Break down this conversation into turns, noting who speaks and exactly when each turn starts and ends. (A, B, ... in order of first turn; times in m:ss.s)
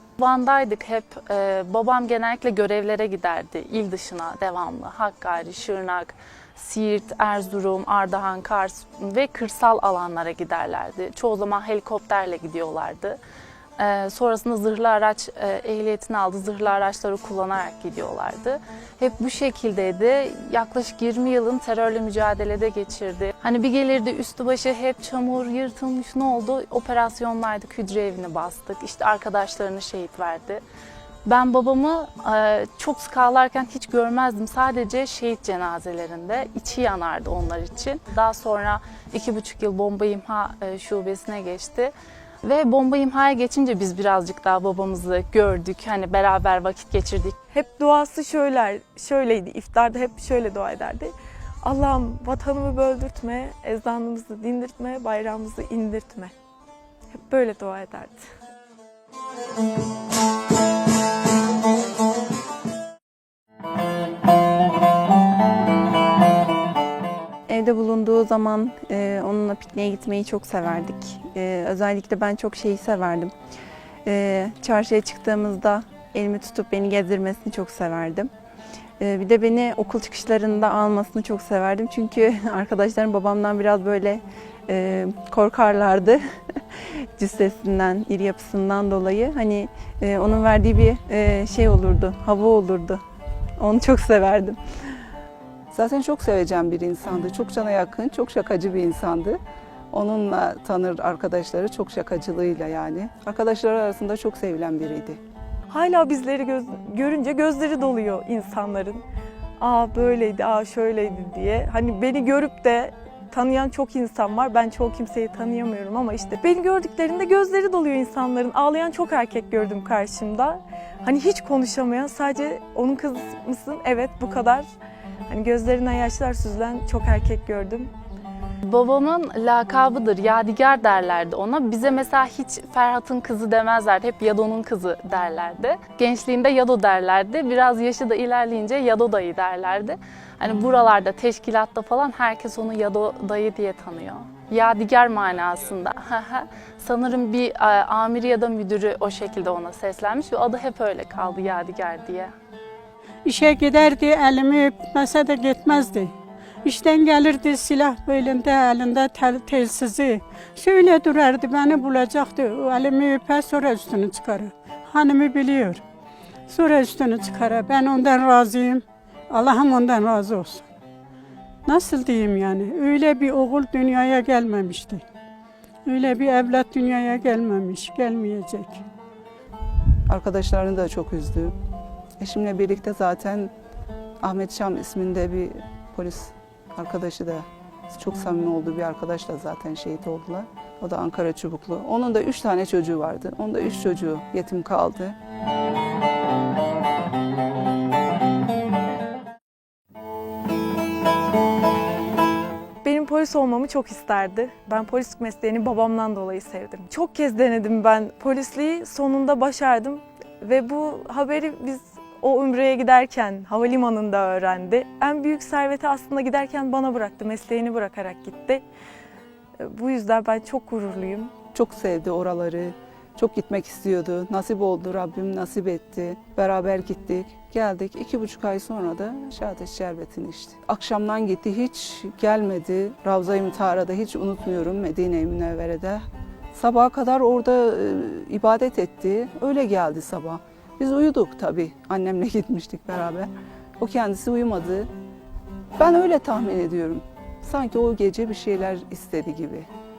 0:00.2-0:13.2 A
0:13.8-0:30.6 A
0:31.2-0:47.4 A
0:47.5-0:56.3 B
0:57.1-0:58.2 B
1:07.5-1:13.3 C
1:14.0-1:18.3 C
1:19.0-1:26.2 C
1:26.8-1:33.0 C
1:33.6-1:35.0 C
1:35.7-1:39.4 D
1:39.9-1:45.2 D
1:45.7-1:49.0 B
1:49.6-2:04.7 B
2:05.3-2:07.9 B
2:08.6-2:32.3 A
2:33.2-2:36.1 E
2:36.6-2:45.8 E
2:46.5-2:50.7 E
2:51.7-2:55.0 E
2:55.8-2:58.8 E
3:00.1-3:01.5 D
3:02.2-3:03.5 D
3:04.2-3:15.2 D
3:22.8-3:38.6 B
3:39.6-3:41.3 B
3:41.5-4:04.9 D
4:05.8-4:09.7 D